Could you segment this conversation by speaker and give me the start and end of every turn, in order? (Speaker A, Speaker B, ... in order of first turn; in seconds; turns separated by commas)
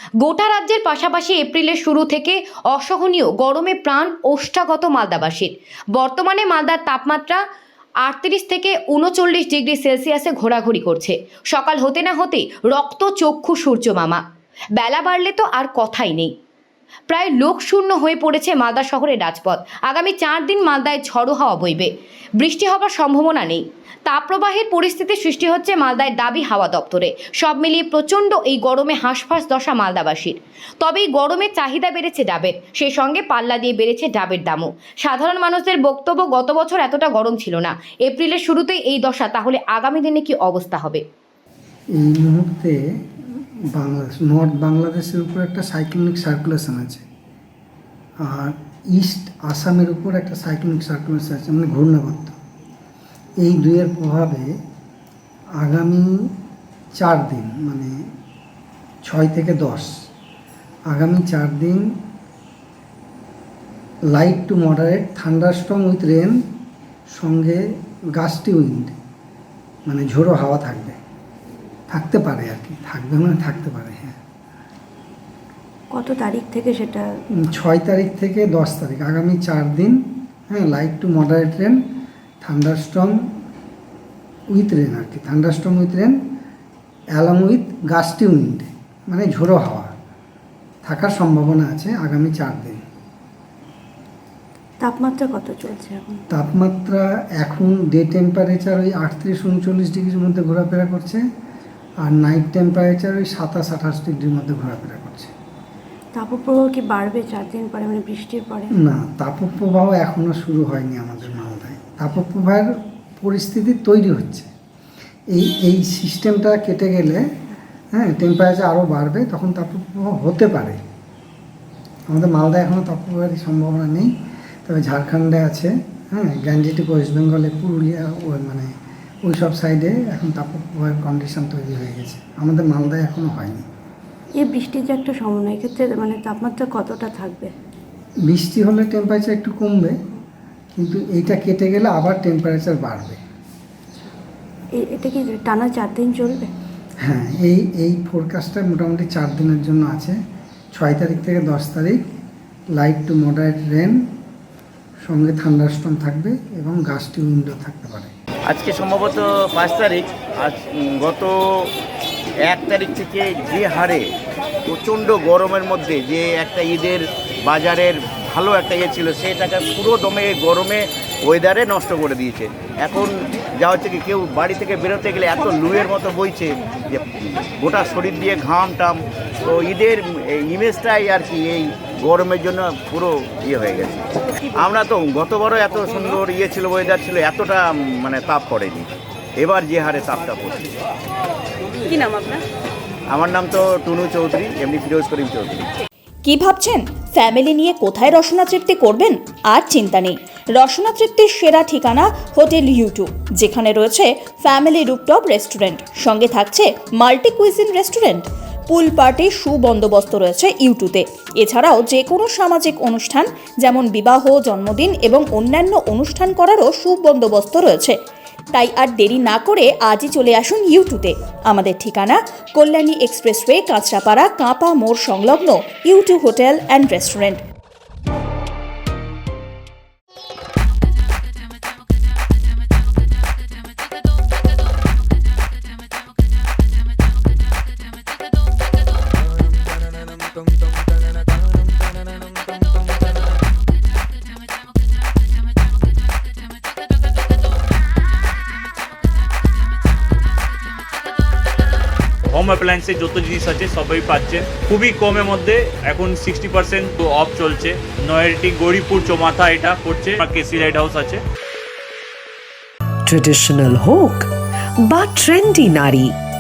Speaker A: 0.2-7.4, Speaker A: 8.0-14.2, Speaker A: 14.8-16.3, Speaker A: 17.1-41.0, Speaker B: 42.0-42.8, Speaker B: 43.7-47.0, Speaker B: 48.3-52.4, Speaker B: 53.4-54.5, Speaker B: 55.6-56.1, Speaker B: 57.0-58.0, Speaker B: 59.0-59.9, Speaker B: 60.9-61.9, Speaker B: 64.1-66.4, Speaker B: 67.1-67.6, Speaker B: 68.2-69.0, Speaker B: 69.9-71.0, Speaker B: 71.9-74.2, Speaker C: 75.9-77.1, Speaker B: 77.5-80.0, Speaker B: 80.5-81.8, Speaker B: 82.4-83.1, Speaker B: 84.5-86.2, Speaker B: 87.2-89.9, Speaker B: 90.9-92.8, Speaker C: 94.8-96.2, Speaker B: 96.3-101.2, Speaker B: 102.0-105.3, Speaker C: 106.1-108.7, Speaker B: 108.8-112.7, Speaker B: 113.2-114.5, Speaker B: 115.3-117.2, Speaker B: 118.0-120.8, Speaker B: 122.1-124.1, Speaker B: 124.7-128.7, Speaker B: 129.3-133.7, Speaker C: 134.4-137.5, Speaker B: 138.3-140.0, Speaker B: 140.8-143.2, Speaker C: 144.8-146.5, Speaker B: 147.0-150.2, Speaker B: 150.8-152.0, Speaker B: 152.8-154.0, Speaker B: 155.1-158.1, Speaker D: 158.5-161.7, Speaker D: 162.5-164.0, Speaker D: 164.7-184.1, Speaker D: 184.6-188.9, Speaker D: 189.4-190.7, Speaker D: 193.1-195.7, Speaker E: 196.2-218.0, Speaker E: 218.5-227.4, Speaker F: 252.3-261.2, Speaker G: 263.1-264.3, Speaker G: 264.8-266.2